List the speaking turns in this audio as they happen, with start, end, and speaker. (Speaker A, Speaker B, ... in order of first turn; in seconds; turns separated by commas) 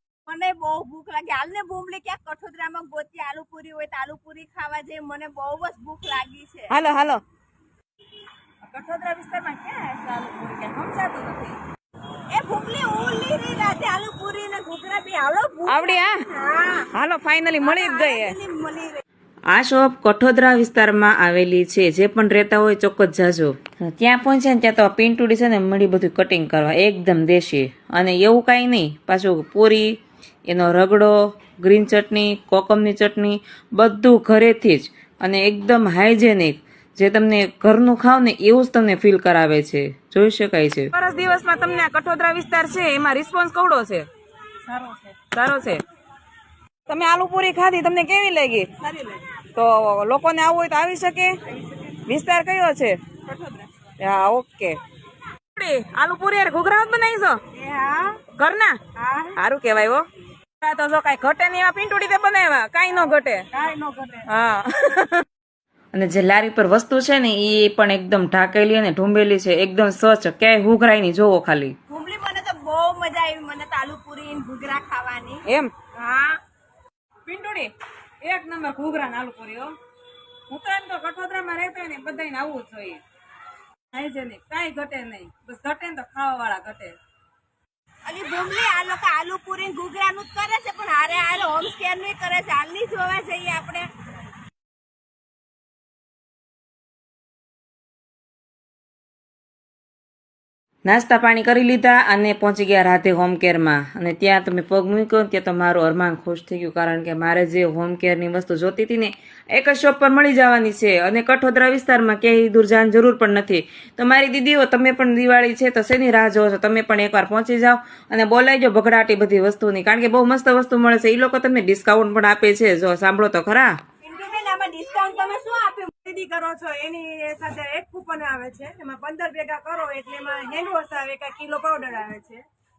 Speaker A: 0.2-6.8, Speaker B: 6.7-7.2, Speaker C: 8.6-11.5, Speaker A: 12.3-16.9, Speaker C: 15.7-16.1, Speaker C: 16.9-18.3, Speaker A: 17.6-19.0, Speaker B: 19.5-30.0, Speaker B: 30.5-40.9, Speaker C: 40.9-44.0, Speaker C: 45.3-45.7, Speaker C: 46.9-48.7, Speaker A: 48.8-49.2, Speaker C: 49.5-51.4, Speaker C: 52.0-53.0, Speaker C: 54.0-54.8, Speaker C: 55.5-57.4, Speaker A: 57.5-58.2, Speaker C: 58.3-58.8, Speaker A: 58.9-59.4, Speaker C: 59.4-60.0, Speaker C: 60.6-63.4, Speaker A: 63.5-64.3, Speaker C: 64.3-65.0, Speaker B: 65.9-71.7, Speaker A: 71.9-76.4, Speaker C: 77.3-77.7, Speaker C: 78.2-79.7, Speaker C: 80.5-83.0, Speaker C: 83.9-86.9, Speaker A: 88.0-93.9, Speaker B: 100.8-123.7, Speaker A: 124.0-132.4